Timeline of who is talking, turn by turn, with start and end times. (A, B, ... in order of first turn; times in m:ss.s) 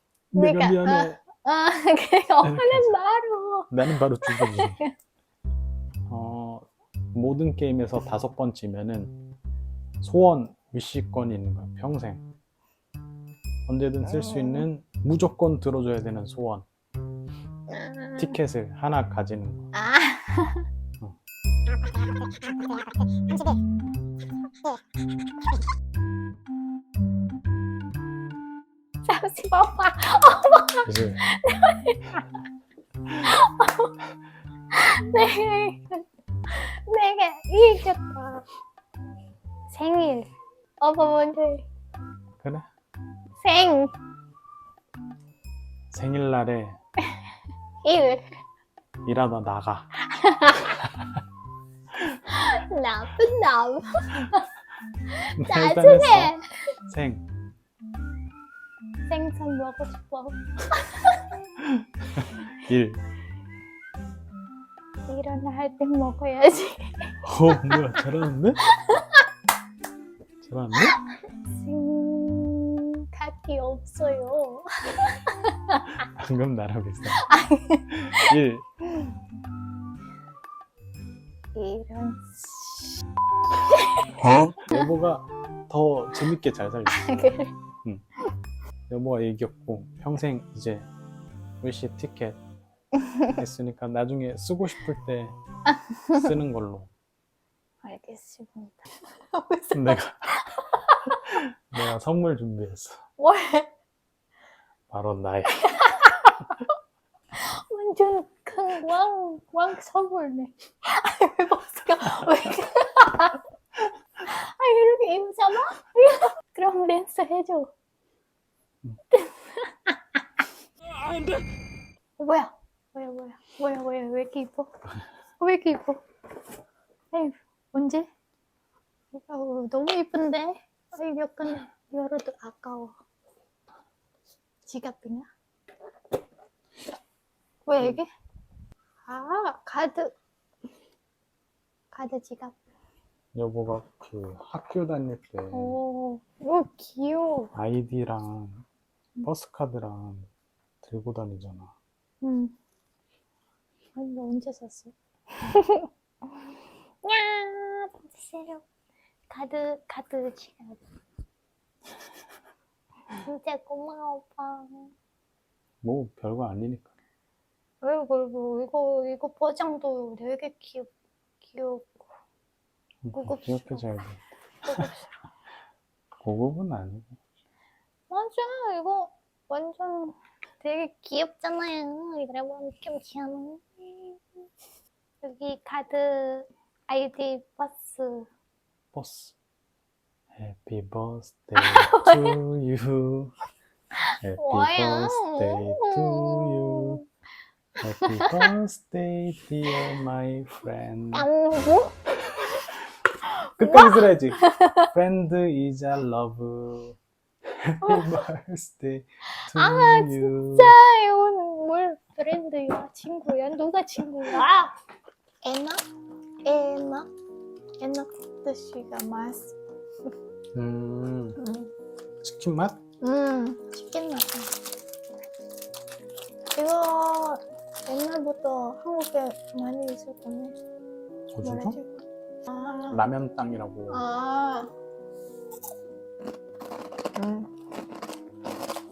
0:00.3-0:01.2 A
0:00.4-0:04.9 B
0:02.4-0:02.9 A
0:03.7-0:04.8 A
0:06.1-0:09.2 A
0:10.0-0:12.2 A
0:13.7-0:16.7 A
0:17.7-0:18.3 B
0:18.2-0:19.7 A
0:19.7-0:20.7 B
0:29.0-0:32.3 B
0:30.8-0:31.2 A
0:33.1-0:34.0 B
0:34.7-0:38.4 B
0:39.7-0:40.3 B
0:40.8-0:41.7 B
0:42.4-0:42.7 A
0:43.4-0:43.9 B
0:45.9-0:46.8 A
0:47.8-0:48.2 B
0:49.0-0:49.9 A
0:50.0-0:50.8 B
0:50.8-0:51.2 A
0:52.0-0:54.4 B
0:55.1-0:56.5 B
0:55.4-0:56.3 A
0:56.9-0:57.2 A
0:59.1-1:01.2 B
1:01.6-1:03.0 A
1:05.1-1:07.1 B
1:07.2-1:08.7 A
1:08.7-1:09.2 B
1:10.4-1:11.0 A
1:11.5-1:16.0 B
1:16.1-1:17.3 A
1:17.1-1:18.4 B
1:18.0-1:18.6 A
1:18.9-1:19.2 B
1:21.6-1:22.9 B
1:23.7-1:24.8 B
1:24.2-1:27.1 A
1:26.9-1:27.5 B
1:28.9-1:30.9 A
1:31.6-1:32.4 A
1:33.0-1:33.4 B
1:33.3-1:35.4 A
1:35.7-1:36.3 B
1:36.1-1:36.9 A
1:37.8-1:41.4 B
1:39.7-1:40.4 A
1:41.3-1:43.0 A
1:43.2-1:43.7 B
1:44.9-1:45.9 A
1:45.6-1:46.7 B
1:47.3-1:53.4 B
1:54.2-1:57.7 B
1:59.1-2:00.2 B
2:02.2-2:04.7 B
2:05.4-2:06.0 B
2:07.1-2:08.1 B
2:09.1-2:12.9 B
2:14.7-2:15.3 B
2:17.7-2:18.1 B
2:19.1-2:20.1 B
2:21.9-2:22.6 B
2:23.3-2:25.8 A
2:25.5-2:27.5 B
2:27.6-2:28.6 A
2:29.2-2:30.3 A
2:30.8-2:31.7 A
2:32.2-2:32.5 B
2:34.0-2:35.9 B
2:37.0-2:38.6 B
2:39.3-2:40.8 B
2:43.1-2:44.9 B
2:45.8-2:46.9 A
2:47.8-2:50.9 B
2:51.4-2:52.0 B
2:53.0-2:54.9 A
2:53.1-2:54.0 B
2:54.6-2:55.2 B
2:56.2-2:57.2 A
2:58.1-3:04.2 B
3:05.2-3:08.3 B
3:08.9-3:09.4 A
3:10.3-3:13.3 A
3:11.6-3:12.4 B
3:14.1-3:17.0 B
3:14.2-3:17.0 A
3:17.8-3:18.5 B
3:17.8-3:21.3 A
3:21.1-3:22.7 B
3:22.2-3:22.7 A
3:23.4-3:24.9 B
3:23.6-3:30.8 A
3:27.8-3:28.1 B
3:29.4-3:34.7 B
3:35.4-3:35.8 B
3:36.4-3:37.1 B
3:37.8-3:39.6 B
3:40.6-3:41.4 A
3:41.4-3:41.7 B
3:42.2-3:42.8 A
3:43.0-3:44.5 B
3:46.6-3:50.6 B
3:51.3-3:51.8 A
3:51.4-3:53.0 B
3:52.9-3:54.0 A
3:53.9-3:54.7 B
3:57.2-3:57.5 B